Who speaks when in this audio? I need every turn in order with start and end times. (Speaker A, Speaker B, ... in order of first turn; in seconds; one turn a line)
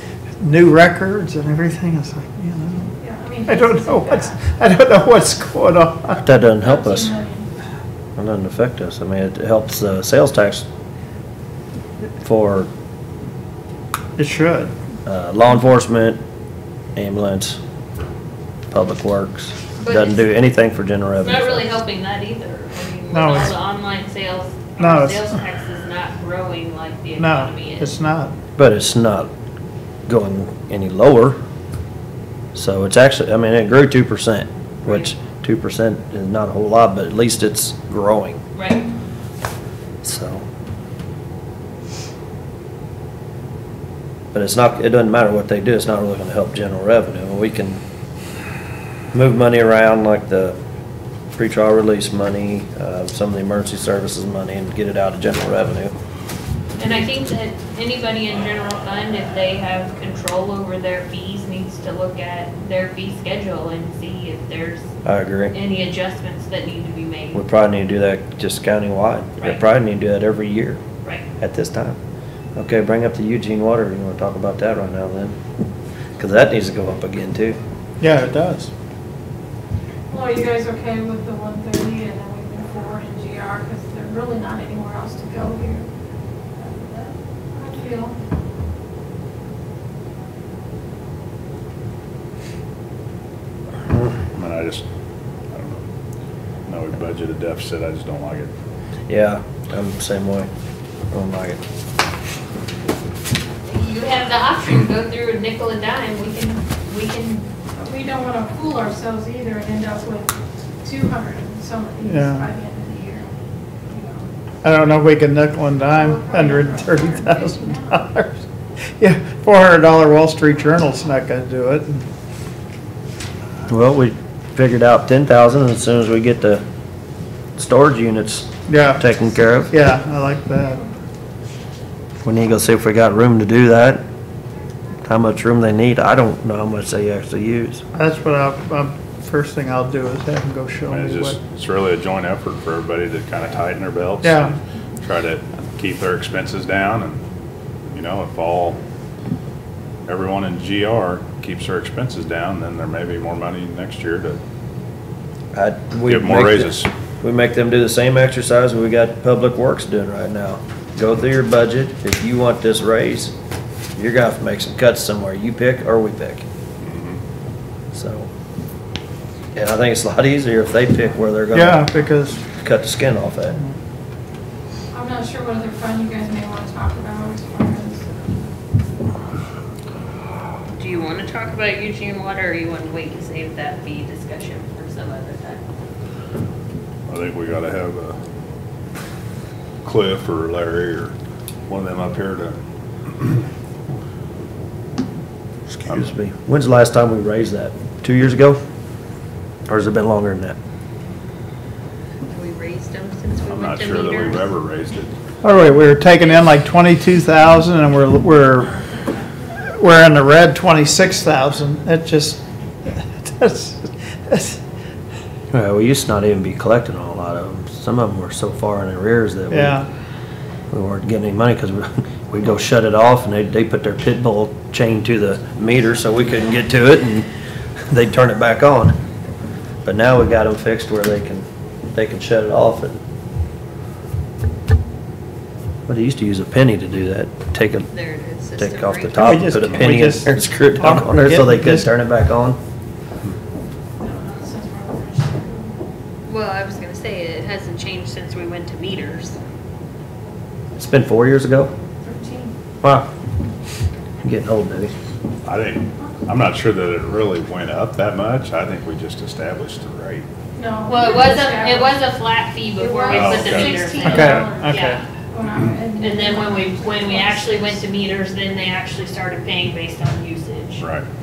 Speaker A: 0.4-3.0
Speaker B: 3.0-4.4
Speaker A: 3.5-6.2
Speaker C: 6.2-7.1
Speaker B: 6.6-7.5
Speaker C: 8.2-10.7
Speaker C: 12.2-12.7
Speaker A: 14.2-14.7
Speaker C: 15.1-16.2
Speaker C: 16.9-17.6
Speaker C: 18.7-21.7
Speaker D: 19.8-20.3
Speaker D: 21.2-27.9
Speaker A: 23.1-23.5
Speaker A: 24.8-25.3
Speaker A: 27.2-28.3
Speaker C: 28.6-29.3
Speaker C: 30.1-31.4
Speaker C: 32.5-38.4
Speaker D: 34.8-35.1
Speaker D: 38.5-38.9
Speaker C: 40.0-40.5
Speaker C: 44.3-47.8
Speaker C: 49.1-50.5
Speaker C: 51.4-55.9
Speaker D: 56.8-64.9
Speaker C: 65.0-65.5
Speaker D: 65.5-67.4
Speaker C: 67.3-70.8
Speaker C: 71.4-72.0
Speaker C: 72.5-75.4
Speaker C: 76.2-77.6
Speaker A: 78.0-78.7
Speaker B: 80.1-85.9
Speaker B: 86.5-88.1
Speaker E: 94.3-94.8
Speaker E: 95.5-95.8
Speaker E: 96.7-98.5
Speaker C: 99.1-100.5
Speaker C: 101.1-101.6
Speaker D: 103.7-107.5
Speaker B: 107.8-113.3
Speaker A: 112.0-112.5
Speaker B: 113.9-114.3
Speaker A: 114.6-118.4
Speaker B: 115.8-118.0
Speaker A: 119.0-122.0
Speaker C: 123.7-126.7
Speaker C: 127.6-129.7
Speaker A: 128.7-129.1
Speaker A: 129.7-130.8
Speaker C: 132.2-134.0
Speaker C: 135.0-137.8
Speaker A: 137.9-141.4
Speaker E: 140.9-147.2
Speaker A: 144.2-144.6
Speaker E: 147.9-148.8
Speaker E: 150.1-154.4
Speaker C: 155.5-163.3
Speaker E: 156.1-156.9
Speaker C: 164.0-166.4
Speaker E: 166.8-167.2
Speaker C: 167.9-168.3
Speaker C: 169.5-171.9
Speaker A: 171.5-172.4
Speaker C: 172.6-173.6
Speaker B: 174.9-178.4
Speaker D: 180.8-185.6
Speaker E: 187.1-188.2
Speaker E: 189.8-191.2
Speaker E: 191.7-192.6
Speaker E: 193.1-193.4
Speaker C: 195.7-198.6
Speaker C: 199.7-200.6
Speaker D: 202.3-204.5
Speaker E: 203.4-205.1
Speaker A: 205.4-208.7
Speaker A: 209.6-214.6
Speaker C: 215.5-219.8
Speaker A: 219.5-219.9
Speaker C: 220.7-227.3
Speaker C: 227.9-229.0
Speaker C: 229.8-233.0
Speaker C: 235.9-237.9
Speaker D: 237.9-239.6
Speaker C: 238.6-242.6
Speaker A: 239.2-241.9
Speaker B: 244.0-245.8
Speaker D: 246.3-249.4
Speaker C: 250.8-251.7
Speaker B: 252.0-252.5
Speaker C: 252.8-253.1
Speaker C: 254.2-254.9
Speaker E: 255.4-260.3
Speaker B: 260.6-262.0
Speaker D: 260.9-265.0
Speaker B: 262.8-267.8
Speaker E: 263.1-263.8
Speaker A: 264.0-265.0
Speaker D: 266.0-270.8
Speaker E: 270.8-271.1